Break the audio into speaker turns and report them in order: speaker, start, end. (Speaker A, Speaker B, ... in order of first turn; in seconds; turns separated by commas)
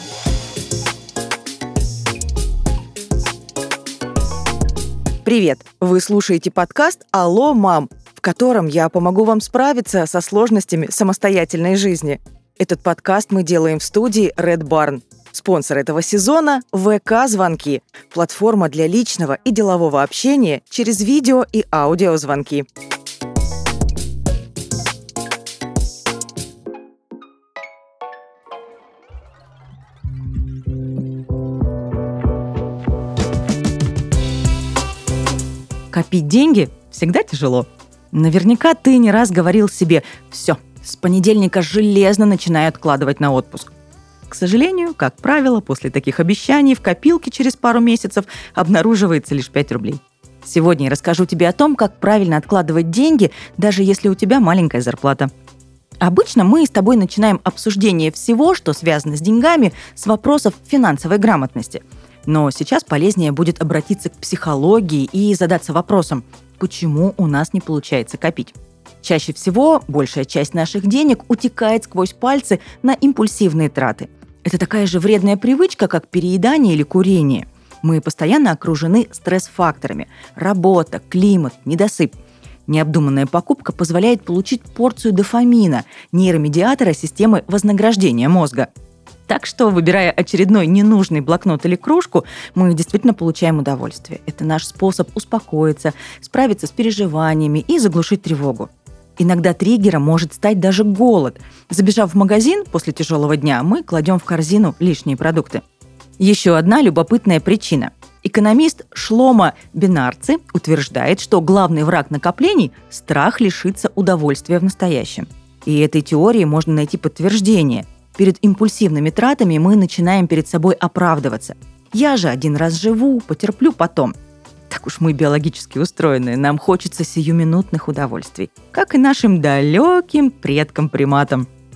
Speaker A: 5.2-22.7, Speaker A: 35.9-43.7, Speaker A: 44.3-55.3, Speaker A: 56.0-82.2, Speaker A: 82.7-88.7, Speaker A: 89.3-105.6, Speaker A: 106.2-124.1, Speaker A: 124.7-131.5